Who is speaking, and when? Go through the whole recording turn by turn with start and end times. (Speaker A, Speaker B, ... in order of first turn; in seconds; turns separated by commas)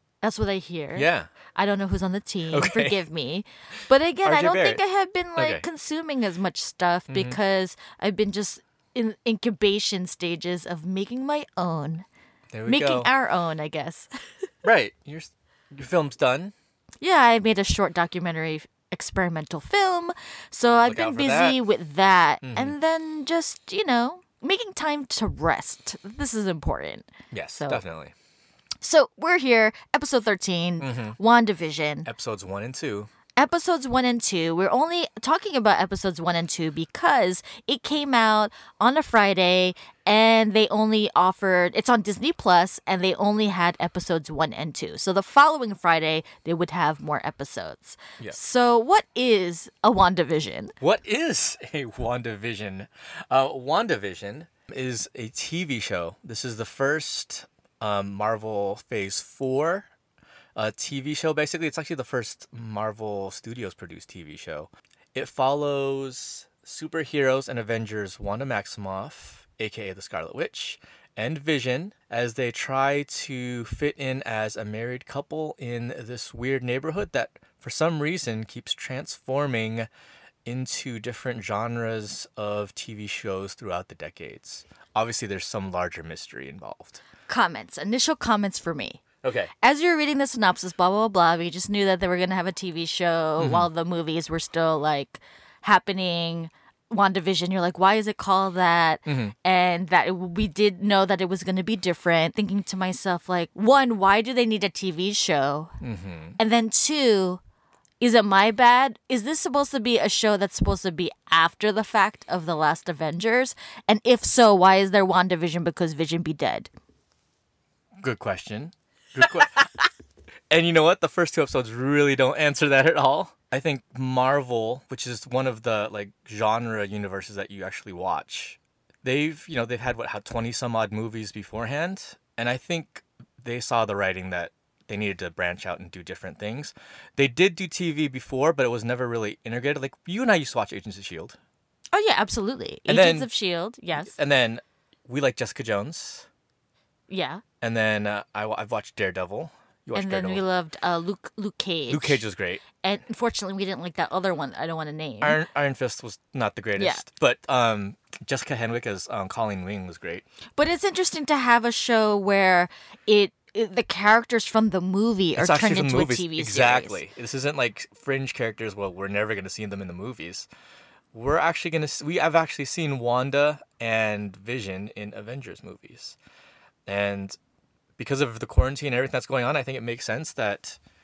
Speaker A: 0.2-12.1, Speaker B: 0.9-1.3, Speaker B: 2.5-3.0, Speaker B: 4.2-4.8, Speaker B: 5.3-5.6, Speaker B: 7.1-7.4, Speaker B: 12.5-13.1, Speaker A: 12.6-14.1, Speaker B: 14.6-16.5, Speaker A: 17.0-27.8, Speaker B: 20.8-21.6, Speaker B: 22.4-22.8, Speaker B: 27.3-28.1, Speaker A: 28.8-32.1, Speaker B: 30.8-31.2, Speaker B: 32.0-33.1, Speaker A: 33.4-50.7, Speaker B: 50.8-59.9, Speaker B: 60.5-79.9, Speaker B: 80.5-87.0, Speaker A: 87.3-89.0, Speaker B: 89.2-89.5, Speaker A: 89.6-105.8, Speaker B: 93.4-93.7, Speaker B: 99.1-99.3, Speaker B: 105.8-106.4, Speaker A: 106.4-107.4, Speaker A: 108.0-116.7, Speaker B: 118.0-119.6, Speaker B: 120.5-141.4, Speaker A: 141.9-144.1, Speaker B: 142.9-143.3, Speaker B: 144.0-146.3, Speaker A: 147.1-147.4, Speaker B: 147.6-150.4, Speaker A: 149.9-152.2, Speaker B: 151.9-152.6, Speaker A: 152.8-155.4, Speaker B: 155.2-160.2, Speaker A: 156.8-157.0, Speaker A: 160.6-167.0, Speaker B: 165.3-170.5, Speaker B: 171.1-176.2, Speaker B: 176.9-177.4, Speaker B: 178.0-180.8